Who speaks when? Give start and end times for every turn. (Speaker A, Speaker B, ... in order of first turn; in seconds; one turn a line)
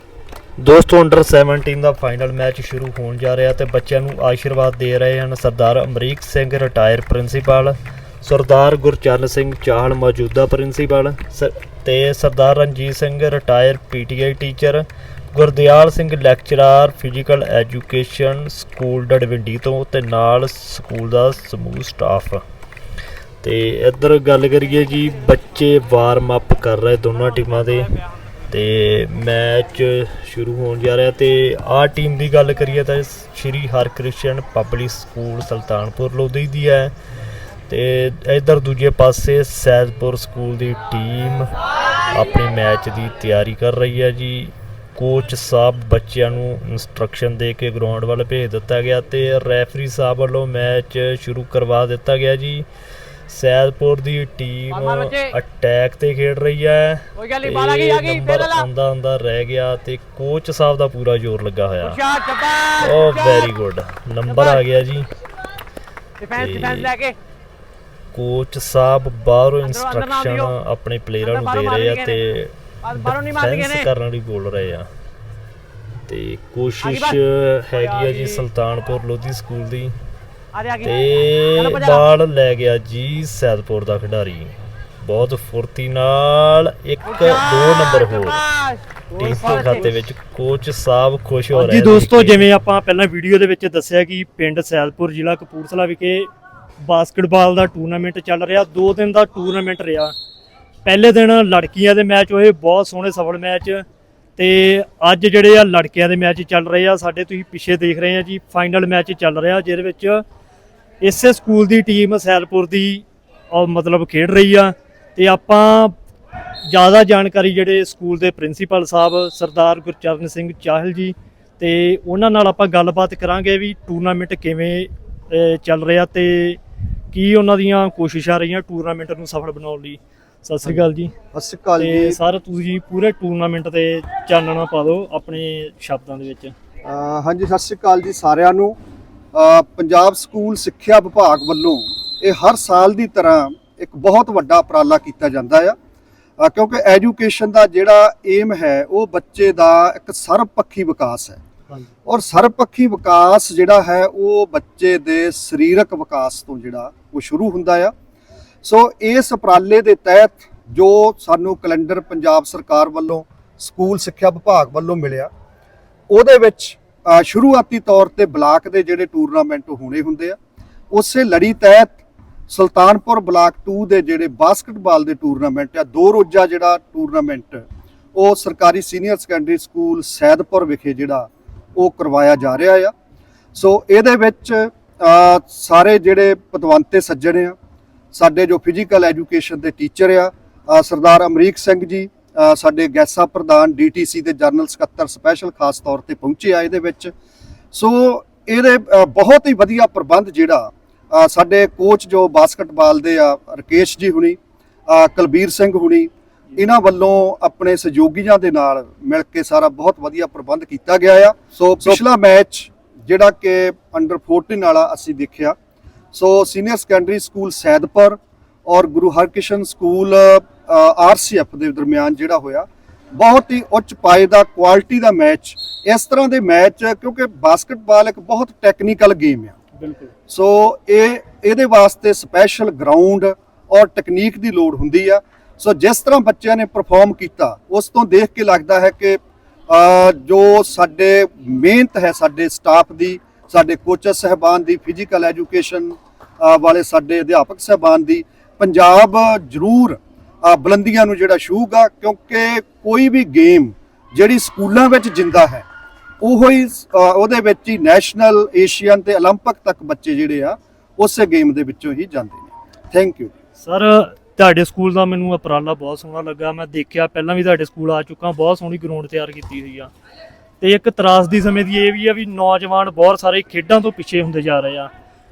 Speaker A: 0.6-22.4
Speaker A: 23.4-27.9
Speaker A: 28.5-36.9
Speaker A: 37.7-52.6
Speaker A: 53.3-62.0
Speaker B: 54.8-55.3
Speaker B: 57.2-58.6
Speaker B: 62.0-63.4
Speaker A: 62.8-65.1
Speaker B: 66.2-67.2
Speaker A: 66.3-66.9
Speaker A: 68.1-74.9
Speaker B: 69.6-70.5
Speaker B: 71.2-72.2
Speaker B: 72.8-73.8
Speaker A: 76.1-79.9
Speaker B: 76.8-77.1
Speaker B: 78.1-78.4
Speaker B: 80.6-80.9
Speaker A: 80.8-88.4
Speaker B: 81.6-82.0
Speaker B: 88.6-89.8
Speaker A: 89.1-92.5
Speaker C: 91.5-96.3
Speaker C: 96.8-100.1
Speaker C: 100.8-103.8
Speaker C: 104.4-110.2
Speaker C: 111.0-115.9
Speaker C: 116.7-126.6
Speaker C: 127.1-131.1
Speaker D: 131.3-132.2
Speaker C: 131.8-136.5
Speaker D: 136.8-138.8
Speaker D: 139.3-145.8
Speaker D: 146.4-151.4
Speaker D: 152.1-157.9
Speaker D: 158.6-165.3
Speaker D: 166.1-170.4
Speaker D: 170.9-182.9
Speaker D: 183.5-187.6
Speaker D: 188.1-197.1
Speaker D: 197.7-215.6
Speaker D: 216.1-229.6
Speaker C: 229.8-230.1
Speaker D: 230.3-255.6
Speaker D: 256.2-263.3
Speaker C: 263.6-269.9
Speaker C: 270.6-274.9